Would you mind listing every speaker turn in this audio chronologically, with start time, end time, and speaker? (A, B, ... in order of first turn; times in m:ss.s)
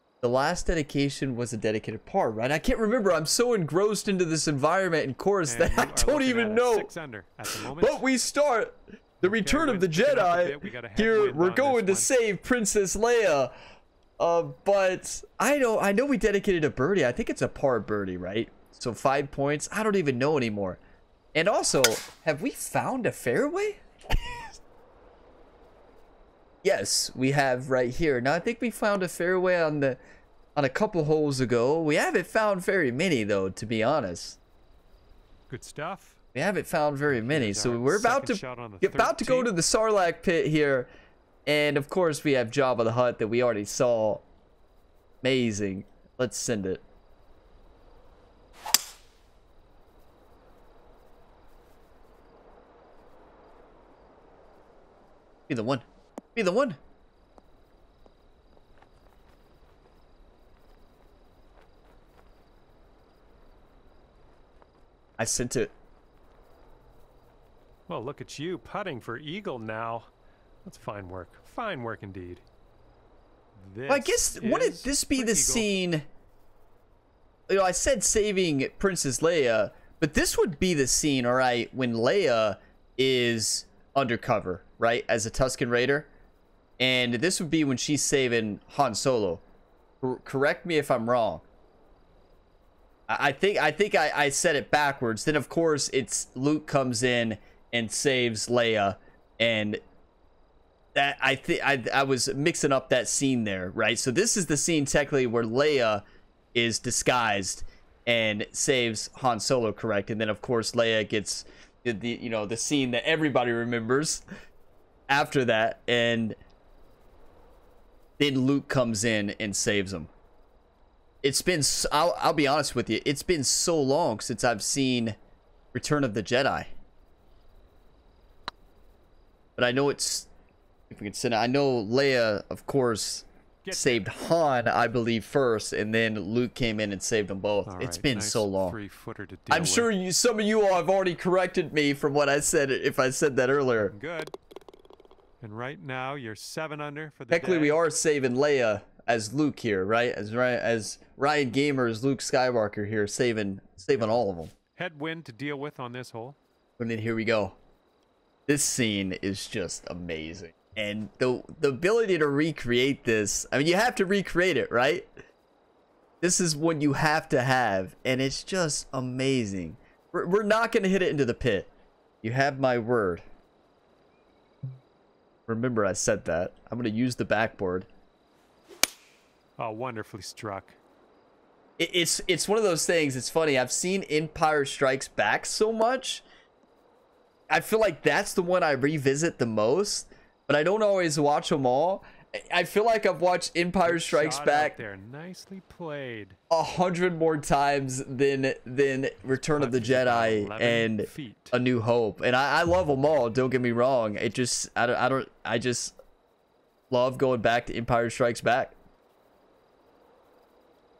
0:00.2-0:06.9 A
0:05.5-0:08.0 B
0:07.7-0:13.5 A
0:09.2-0:12.1 B
0:14.2-0:20.8 A
0:21.4-0:24.4 A
0:26.6-0:30.0 A
0:30.6-0:34.4 A
0:35.5-0:36.2 B
0:36.4-0:40.9 A
0:37.1-0:39.5 B
0:41.5-0:44.2 A
0:45.2-0:46.8 A
0:55.5-0:55.8 A
0:56.4-0:56.8 A
1:05.2-1:05.7 A
1:07.9-1:10.1 B
1:10.6-1:12.4 B
1:13.6-1:15.7 B
1:13.9-1:16.1 A
1:17.5-1:26.1 A
1:26.8-1:29.4 A
1:30.0-1:31.4 A
1:33.1-1:39.8 A
1:41.0-1:54.2 A
1:55.1-1:56.4 A
1:58.2-2:00.1 A
2:01.2-2:05.2 A
2:05.7-2:06.7 A
2:09.6-2:10.3 A
2:10.9-2:18.8 A
2:13.6-2:14.1 B
2:17.7-2:19.9 B
2:19.5-2:23.9 A
2:23.9-2:24.3 B
2:25.4-2:27.8 B
2:27.3-2:34.5 A
2:34.0-2:34.2 B
2:34.8-2:36.4 B
2:36.8-2:37.6 A
2:38.5-2:45.1 A
2:46.2-2:51.7 A
2:52.2-2:53.2 A
2:55.5-2:57.9 A
2:59.6-3:00.8 B
3:01.8-3:06.2 A
3:07.5-3:14.8 A
3:13.8-3:16.4 B
3:16.5-3:26.0 A
3:19.3-3:21.6 B
3:26.9-3:28.8 A